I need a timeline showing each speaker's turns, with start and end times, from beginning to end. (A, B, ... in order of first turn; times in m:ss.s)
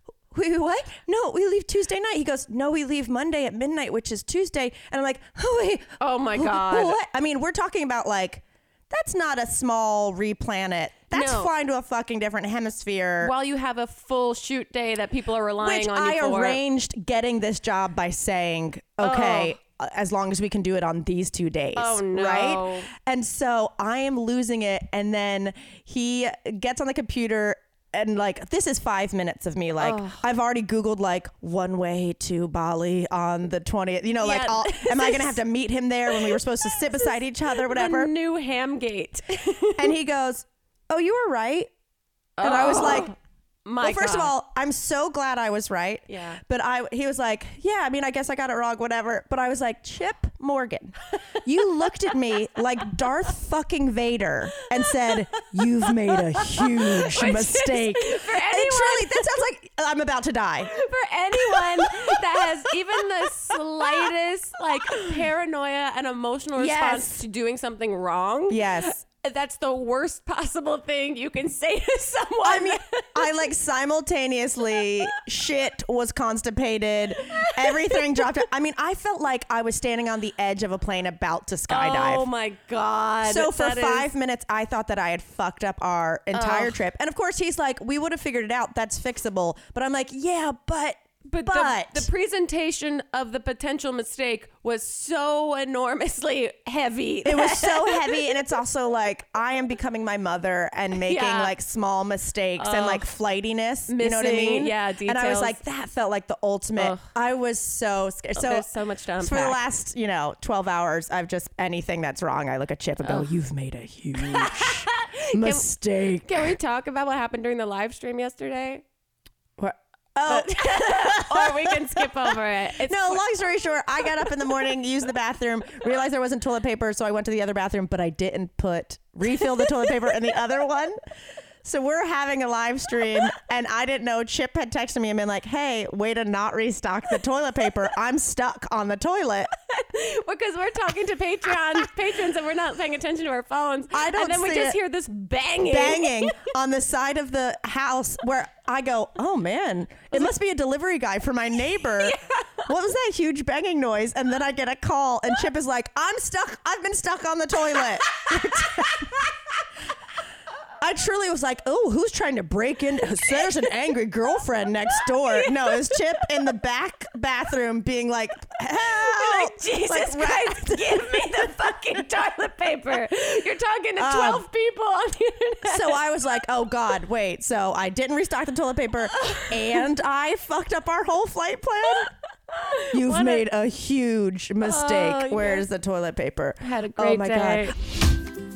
0:00.3-0:13.3 A
0:06.0-0:07.0 B
0:11.1-0:11.5 B
0:13.2-0:16.6 B
0:15.6-0:38.1 A
0:19.0-0:19.6 B
0:21.8-0:22.9 B
0:29.8-0:30.2 B
0:34.2-0:35.4 B
0:36.1-0:39.9 B
0:39.8-0:41.7 A
0:42.4-0:44.3 B
0:42.4-0:43.1 A
0:43.8-1:00.7 A
0:46.1-0:46.4 B
0:54.8-0:59.3 B
1:00.6-1:13.3 B
1:01.3-1:04.1 A
1:04.9-1:05.2 A
1:06.6-1:07.2 A
1:08.5-1:09.0 A
1:12.4-1:22.3 A
1:17.4-1:18.2 B
1:21.7-1:24.1 B
1:23.2-1:32.1 A
1:26.3-1:26.8 B
1:31.3-1:38.4 B
1:37.2-1:48.7 A
1:41.0-1:41.5 B
1:42.6-1:43.1 B
1:43.9-1:45.6 B
1:46.8-1:47.1 B
1:48.4-1:49.6 B
1:49.2-1:56.6 A
1:53.0-1:53.3 B
1:54.2-1:55.7 B
1:56.2-1:58.8 B
1:59.6-2:11.0 A
2:00.3-2:03.3 B
2:11.6-2:19.5 A
2:19.7-2:26.3 B
2:23.9-2:24.8 A
2:25.7-2:39.2 A
2:32.0-2:32.7 B
2:38.1-2:39.1 B
2:40.8-2:51.6 A
2:45.2-2:46.0 B
2:48.9-2:56.0 B
2:54.0-2:54.5 A
2:55.6-3:02.1 A
2:59.2-2:59.5 B
3:02.5-3:03.4 B
3:02.9-3:07.8 A
3:04.6-3:05.7 B
3:06.6-3:07.8 B